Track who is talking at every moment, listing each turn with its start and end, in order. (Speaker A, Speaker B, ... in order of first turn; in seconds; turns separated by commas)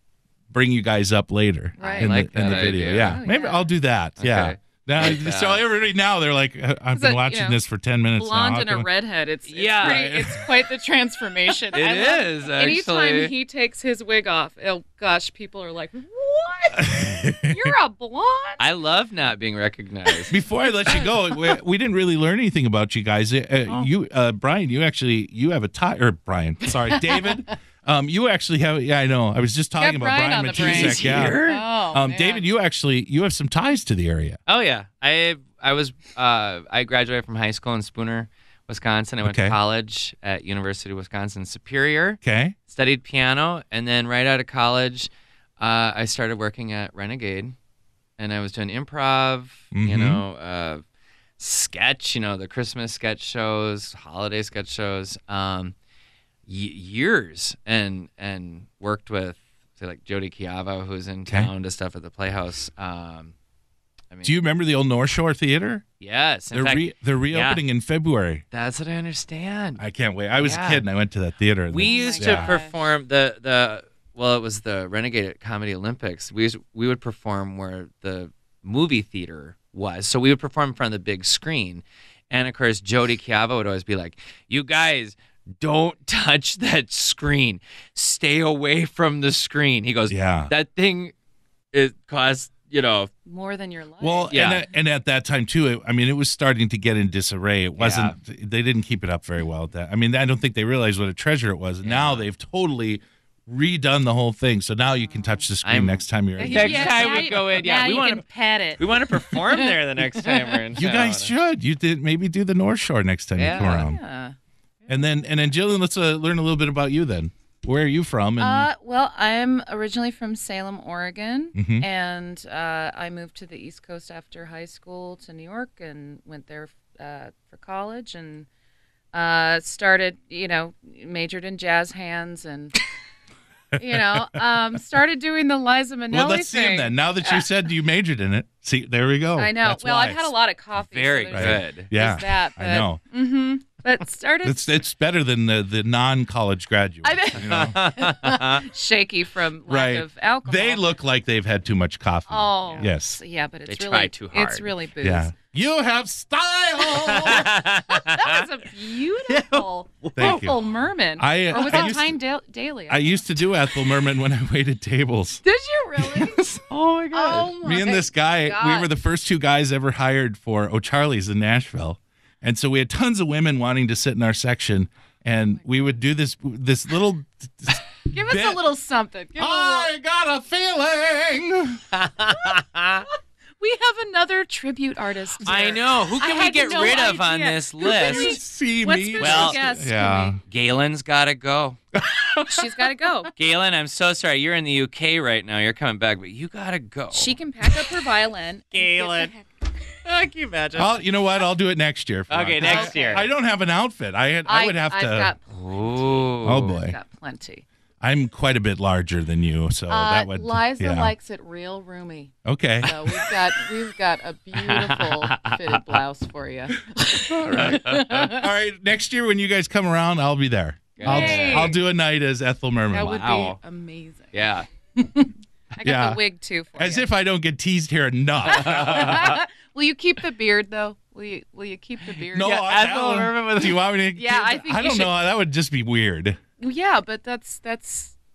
Speaker A: 0.5-8.9, Speaker B: 1.8-3.7, Speaker C: 1.8-3.2, Speaker C: 4.2-5.7, Speaker B: 6.9-7.6, Speaker B: 8.1-18.7, Speaker C: 9.5-10.1, Speaker A: 9.8-10.4, Speaker C: 11.7-13.3, Speaker A: 16.9-17.5, Speaker C: 18.6-20.4, Speaker A: 20.3-31.4, Speaker B: 20.9-21.6, Speaker B: 26.9-27.5, Speaker B: 29.8-32.5, Speaker C: 30.6-31.6, Speaker A: 31.9-34.4, Speaker C: 34.5-47.5, Speaker A: 39.2-39.6, Speaker A: 42.2-42.6, Speaker C: 48.2-50.8, Speaker A: 49.7-50.2, Speaker C: 51.4-55.8, Speaker C: 56.5-63.3, Speaker C: 64.1-64.4, Speaker A: 64.2-65.9, Speaker C: 66.0-67.6, Speaker A: 66.5-68.4, Speaker C: 68.5-69.8, Speaker A: 69.8-72.6, Speaker C: 70.4-70.8, Speaker C: 71.7-91.1, Speaker B: 71.8-72.8, Speaker A: 90.1-90.5, Speaker C: 91.7-93.1, Speaker B: 93.3-94.6, Speaker A: 94.0-107.5, Speaker C: 94.3-94.6, Speaker C: 97.8-98.2, Speaker C: 101.8-102.3, Speaker B: 105.1-105.5, Speaker C: 105.6-108.2, Speaker B: 106.4-110.3, Speaker C: 108.8-111.3, Speaker A: 110.8-114.0, Speaker C: 113.3-113.8, Speaker B: 113.5-114.3, Speaker A: 114.9-118.7, Speaker B: 118.4-128.5, Speaker A: 121.5-121.8, Speaker B: 129.1-132.8, Speaker B: 133.8-137.4, Speaker A: 133.9-134.2, Speaker A: 136.1-140.3, Speaker B: 139.4-144.8, Speaker C: 140.8-141.9, Speaker A: 141.3-143.0, Speaker A: 144.4-147.8, Speaker B: 147.0-150.9, Speaker C: 147.3-148.6, Speaker A: 149.7-153.2, Speaker B: 152.3-155.3, Speaker C: 152.7-152.9, Speaker C: 153.7-154.7, Speaker A: 155.0-157.5, Speaker B: 156.9-163.8, Speaker C: 157.0-158.4, Speaker A: 159.3-159.6, Speaker C: 160.2-160.5, Speaker A: 160.2-160.6, Speaker A: 161.2-162.2, Speaker C: 161.5-161.9, Speaker A: 162.9-165.4, Speaker B: 165.4-166.6, Speaker A: 166.0-166.4, Speaker C: 166.7-167.5, Speaker B: 167.1-168.9, Speaker A: 167.6-178.6, Speaker B: 178.1-179.9, Speaker A: 179.4-181.8, Speaker C: 181.9-183.1, Speaker B: 183.6-190.3, Speaker C: 185.4-188.4, Speaker A: 187.8-190.4, Speaker C: 189.2-189.6, Speaker C: 190.5-191.8, Speaker A: 191.9-192.9, Speaker B: 192.5-193.3, Speaker C: 193.4-197.3, Speaker B: 197.1-199.5, Speaker C: 198.7-199.3, Speaker C: 200.0-201.0, Speaker A: 200.8-205.3, Speaker C: 202.3-203.3, Speaker B: 202.6-203.3, Speaker B: 204.5-207.6, Speaker C: 205.5-206.7, Speaker A: 206.4-207.0, Speaker A: 208.0-211.1, Speaker B: 209.9-218.5, Speaker A: 212.4-213.2, Speaker C: 214.6-215.8, Speaker A: 217.3-223.2, Speaker C: 217.5-218.0, Speaker C: 221.0-221.8, Speaker B: 221.0-221.8, Speaker B: 222.9-227.1, Speaker C: 223.0-223.6, Speaker C: 224.3-224.7, Speaker A: 225.8-226.2, Speaker A: 226.8-229.2, Speaker B: 228.5-232.6, Speaker C: 228.5-229.4, Speaker C: 232.3-233.8, Speaker A: 232.3-236.4, Speaker B: 234.2-235.2, Speaker B: 236.6-238.2